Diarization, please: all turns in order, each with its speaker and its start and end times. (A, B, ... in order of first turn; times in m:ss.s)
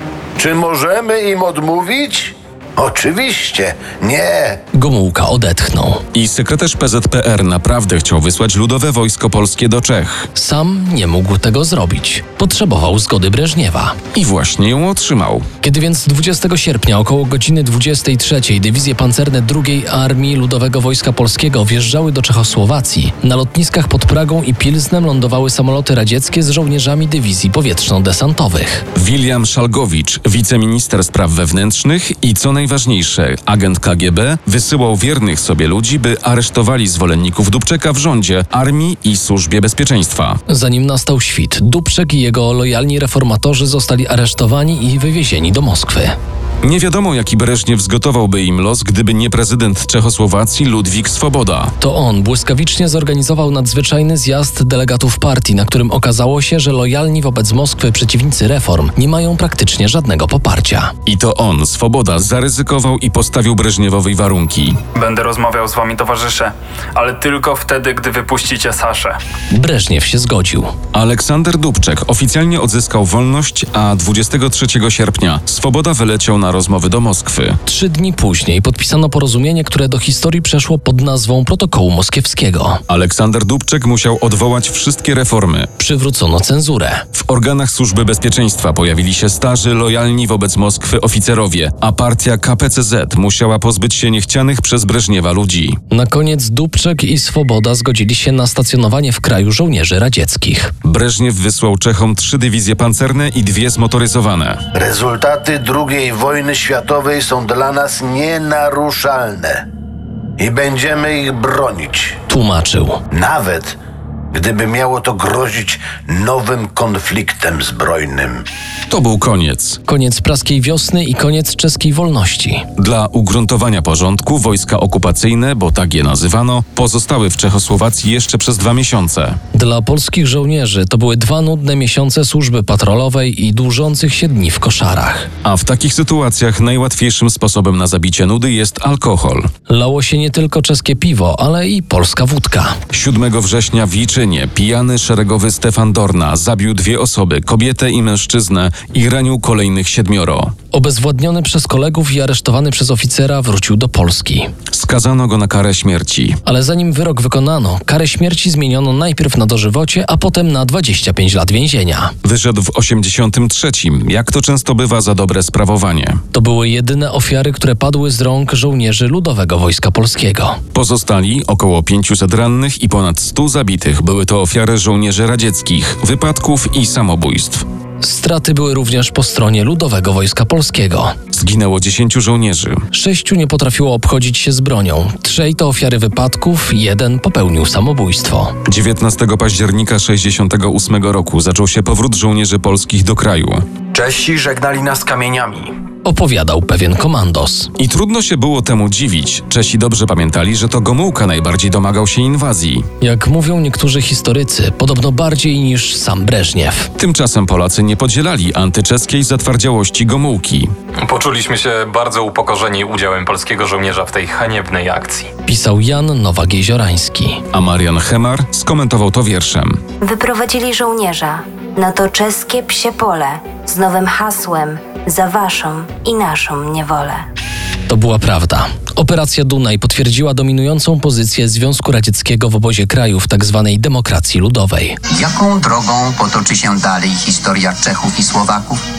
0:00.4-0:04.6 A
0:04.7-0:06.0 B
0:06.1-0:10.3 C
0:10.4-0:14.0 B
0:14.1-0:15.5 C
0:15.6-0:28.8 B
0:29.0-0:40.4 C
0:40.5-0:46.2 B
0:46.6-0:51.7 C
0:51.8-1:00.9 B
1:01.1-1:04.8 C
1:05.0-1:09.2 D
1:09.5-1:10.7 B
1:10.9-1:17.6 C
1:17.7-1:22.8 B
1:22.9-1:25.7 C
1:25.8-1:27.0 B
1:27.2-1:35.8 C
1:35.9-1:40.7 B
1:40.8-1:44.6 C
1:44.8-1:49.7 A
1:50.4-1:52.2 A
1:52.3-1:53.0 B
1:53.1-1:53.8 A
1:54.3-1:58.4 A
1:58.9-1:59.8 C
1:59.8-2:02.7 B
2:02.8-2:09.4 C
2:09.5-2:15.3 B
2:15.4-2:19.5 C
2:19.7-2:22.8 B
2:22.9-2:30.5 C
2:30.7-2:34.5 B
2:34.7-2:36.4 C
2:36.4-2:42.1 B
2:42.2-2:46.2 C
2:46.3-2:50.6 B
2:50.7-2:57.6 C
2:58.0-3:01.2 B
3:01.3-3:02.8 C
3:02.9-3:08.6 B
3:08.6-3:13.6 C
3:16.0-3:17.7 B
3:17.8-3:22.8 C
3:23.0-3:26.9 B
3:27.0-3:30.7 C
3:31.0-3:35.3 E
3:35.5-3:37.4 B
3:37.5-3:39.8 C
3:40.0-3:47.2 F
3:47.9-3:55.0 B
3:55.1-3:58.8 G